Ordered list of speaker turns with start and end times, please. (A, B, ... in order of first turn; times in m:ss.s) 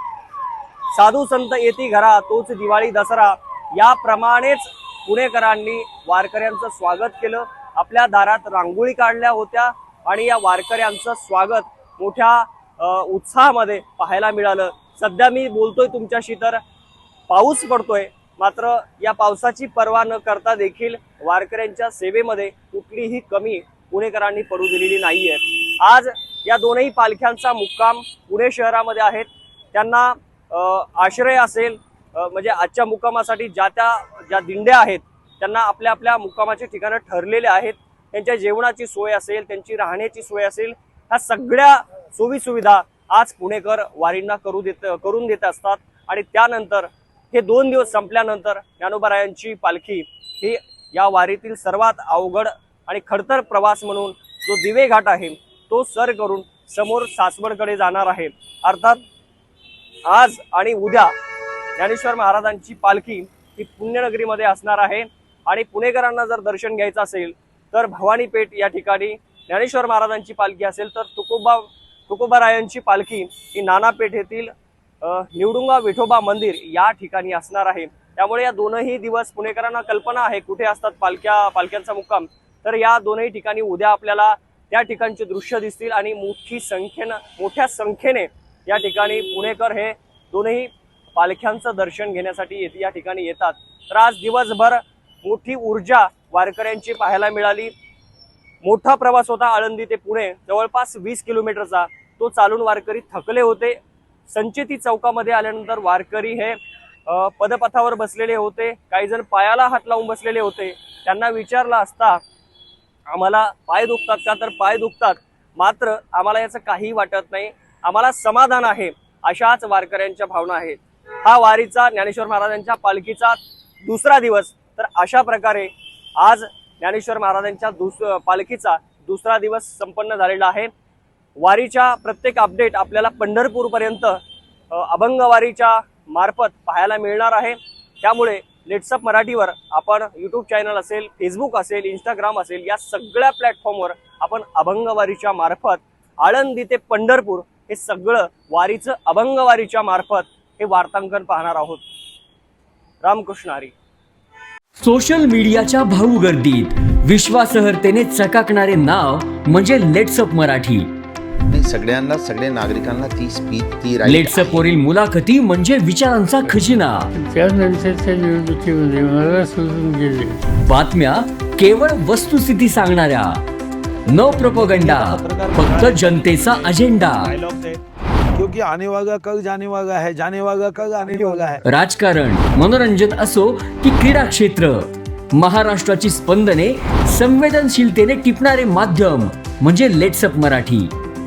0:00.9-0:16.6 A
0:17.3-0:59.0 A
1:00.1-1:01.1 A
1:01.8-1:14.5 A
1:15.0-1:37.7 A
1:38.6-1:43.8 A
1:44.3-1:52.2 A
1:53.1-2:10.7 A
2:11.4-2:14.2 A
2:14.7-2:31.8 A
2:33.0-2:33.7 A
2:34.8-2:40.9 B
2:41.5-2:44.7 C
2:44.0-2:47.1 B
2:47.1-2:50.4 D
2:50.6-2:53.4 B
2:54.1-2:57.3 B
2:54.2-2:56.2 E
2:55.6-2:57.8 A
2:58.3-3:01.6 E
3:01.6-3:10.9 B